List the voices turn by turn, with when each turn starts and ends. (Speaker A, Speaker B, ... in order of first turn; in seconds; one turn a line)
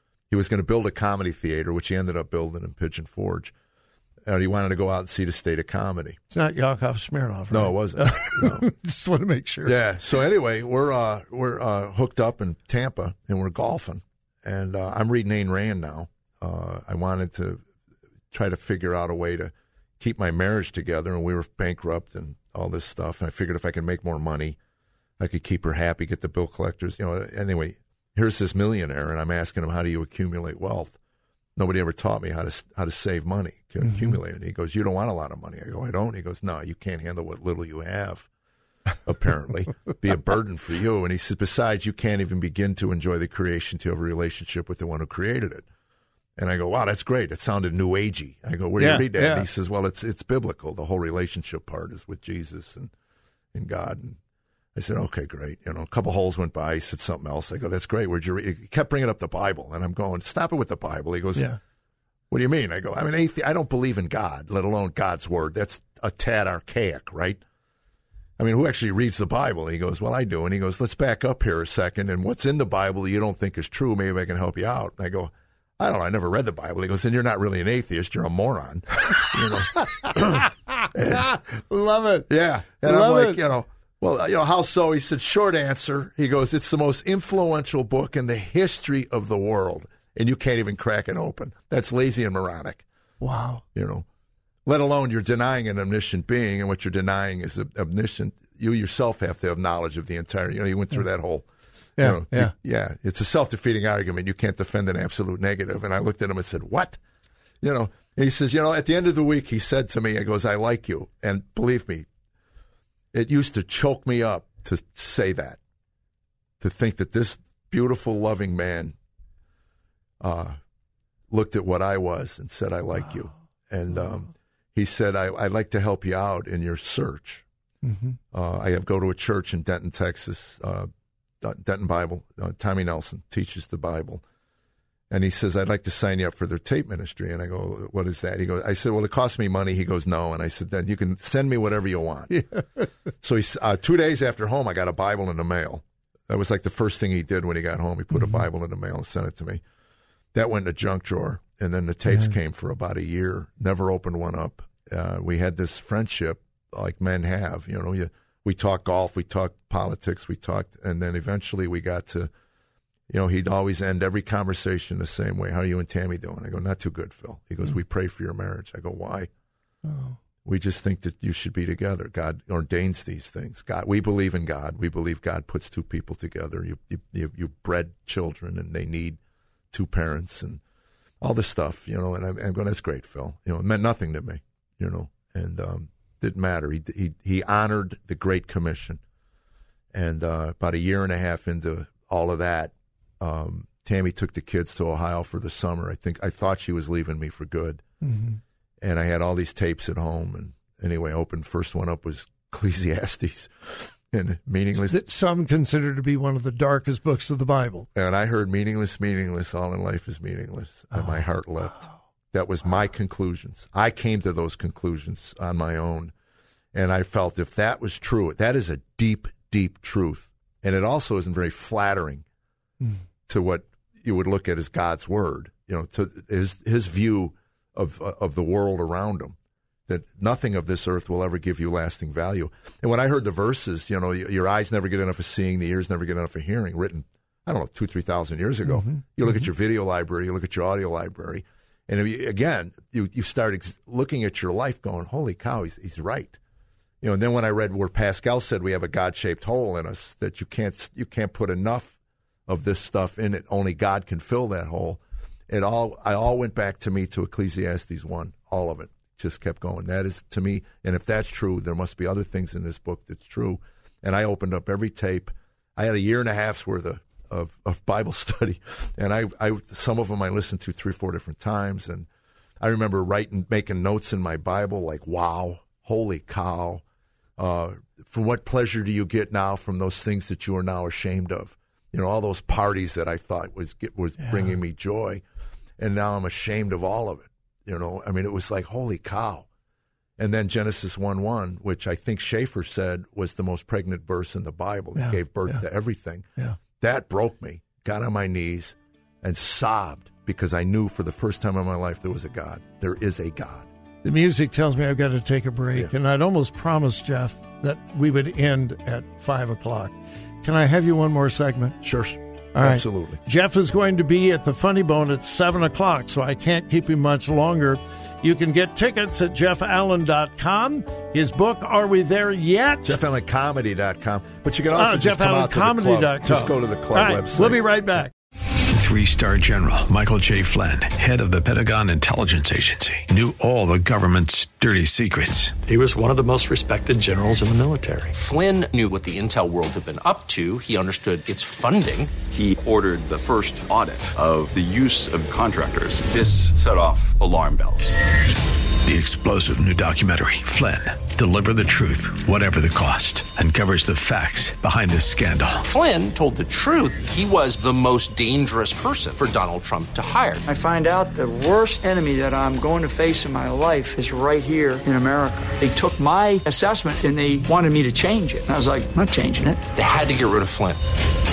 Speaker A: 0.3-3.5
Speaker A: 4.2-6.2
Speaker B: 6.3-9.7
Speaker A: 7.5-8.7
Speaker A: 9.6-17.6
Speaker A: 18.3-24.6
Speaker A: 25.2-31.0
Speaker A: 31.6-38.3
Speaker A: 39.0-45.6
Speaker A: 46.4-52.9
Speaker B: 48.8-49.5
Speaker A: 53.5-54.2
Speaker A: 54.7-61.5
Speaker A: 62.3-67.4
Speaker A: 68.4-81.4
Speaker B: 81.2-82.3
Speaker A: 82.3-92.8
Speaker B: 82.8-83.4
Speaker B: 93.2-93.6
Speaker A: 93.7-94.0
Speaker A: 94.7-101.5
Speaker B: 102.0-102.5
Speaker A: 102.0-107.0
Speaker A: 107.6-112.1
Speaker A: 113.1-115.6
Speaker A: 116.6-119.0
Speaker A: 120.2-120.6
Speaker A: 121.3-127.4
Speaker B: 127.8-128.2
Speaker A: 128.3-130.9
Speaker A: 131.4-134.2
Speaker A: 135.1-142.5
Speaker A: 143.2-149.6
Speaker A: 150.3-162.3
Speaker A: 163.1-169.3
Speaker A: 170.4-179.2
Speaker A: 179.7-180.6
Speaker A: 181.2-189.0
Speaker A: 189.9-197.8
Speaker B: 198.0-198.4
Speaker A: 198.8-205.0
Speaker B: 204.7-207.9
Speaker A: 207.9-216.1
Speaker A: 216.7-222.2
Speaker A: 223.3-229.3
Speaker A: 229.9-246.4
Speaker A: 247.0-272.1
Speaker A: 272.6-276.8
Speaker A: 277.4-285.2
Speaker A: 285.8-289.5
Speaker A: 290.2-296.2
Speaker B: 294.9-295.6
Speaker A: 296.8-303.7
Speaker B: 304.0-311.8
Speaker A: 311.8-313.2
Speaker B: 312.5-323.0
Speaker A: 322.8-327.6
Speaker B: 324.7-328.1
Speaker C: 328.7-335.6
Speaker D: 335.7-338.1
Speaker E: 338.1-342.1
Speaker F: 342.3-347.9
Speaker C: 348.8-355.6
Speaker E: 355.6-360.4
Speaker G: 360.4-369.6
Speaker E: 369.7-370.8